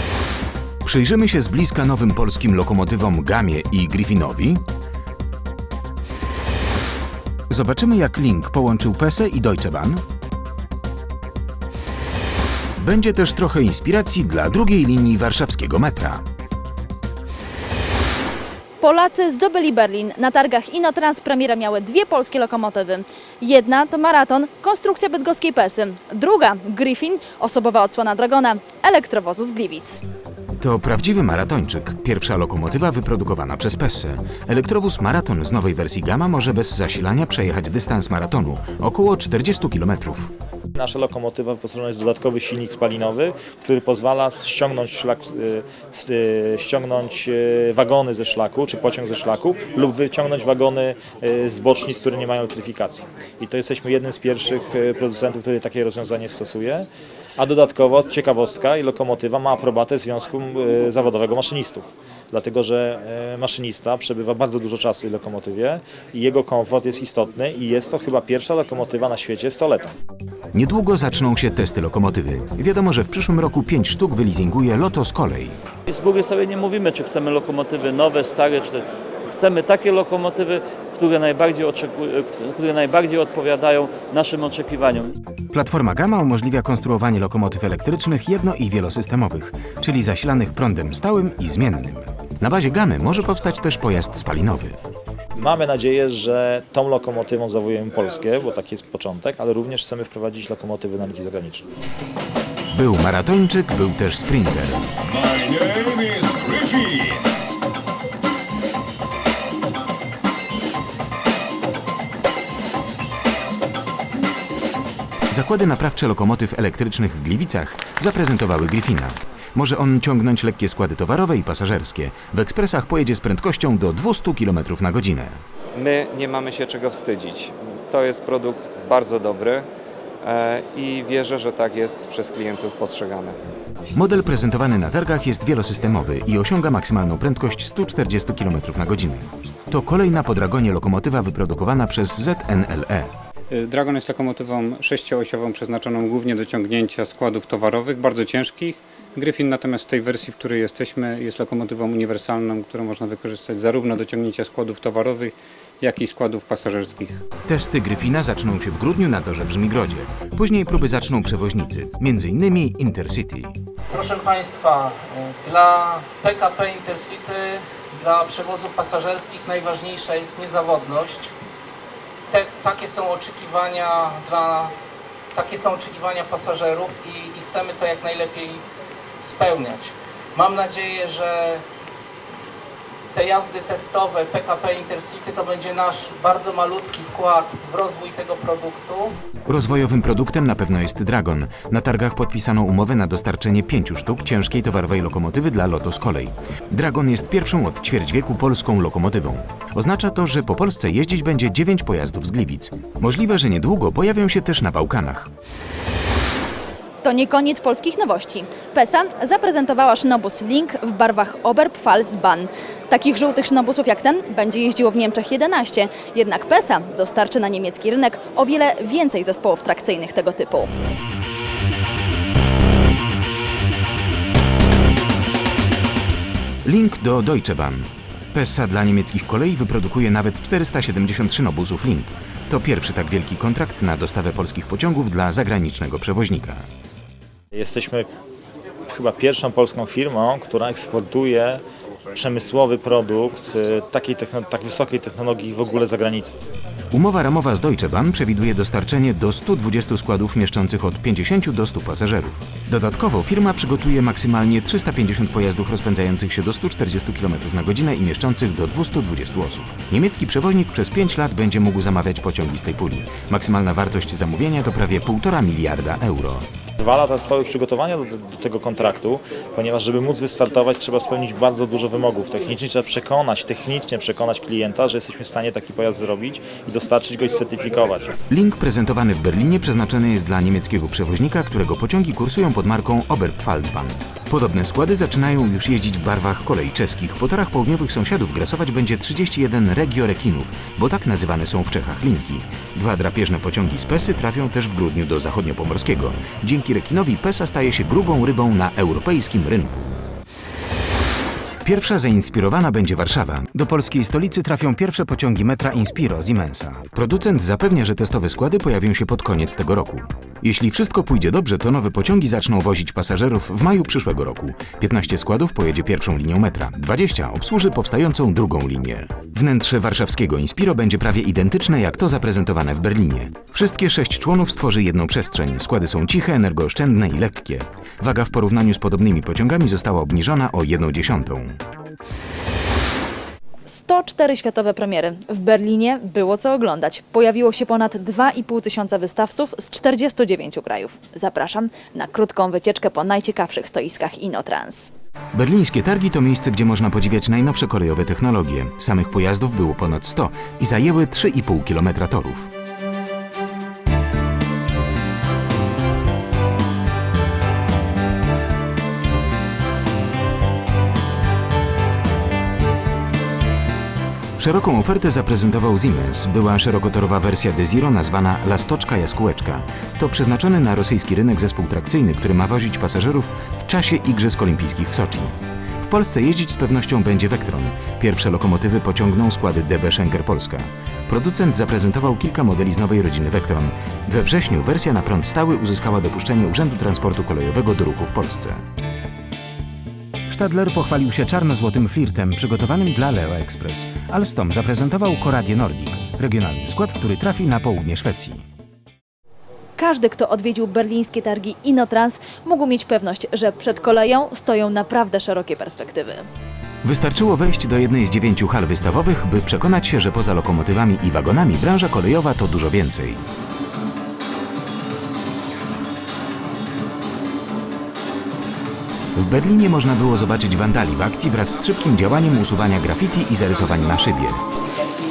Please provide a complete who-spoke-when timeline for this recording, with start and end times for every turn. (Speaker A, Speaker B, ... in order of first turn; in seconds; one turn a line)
Speaker A: 0.8-4.6
Speaker A: 7.5-10.0
Speaker A: 12.8-16.2
Speaker B: 18.8-30.0
Speaker A: 30.6-40.3
Speaker C: 40.8-56.9
Speaker C: 57.4-69.9
Speaker A: 70.5-75.6
Speaker D: 75.9-85.2
Speaker A: 85.5-94.8
Speaker C: 95.4-101.7
Speaker A: 102.7-104.9
Speaker E: 105.1-107.2
Speaker A: 115.3-125.4
Speaker F: 125.7-129.7
Speaker F: 130.2-133.4
Speaker A: 133.9-143.1
Speaker G: 143.5-157.2
Speaker A: 157.5-163.6
Speaker H: 163.9-171.3
Speaker H: 172.3-174.7
Speaker H: 175.3-178.6
Speaker H: 179.2-181.6
Speaker H: 183.1-189.2
Speaker A: 189.5-205.3
Speaker B: 207.0-220.7
Speaker A: 226.7-236.6
Speaker C: 237.5-238.1
Speaker C: 238.9-241.6
Speaker C: 242.1-246.3
Speaker A: 246.9-266.5
Speaker C: 266.8-278.1
Speaker A: 278.3-300.0
Speaker A: 301.6-331.6
Speaker B: 333.7-344.9
Speaker A: 345.3-352.5
Speaker A: 364.4-388.6
Speaker A: 390.3-398.4
Speaker B: 399.8-406.3
Speaker A: 406.8-413.2
Speaker A: 419.1-424.4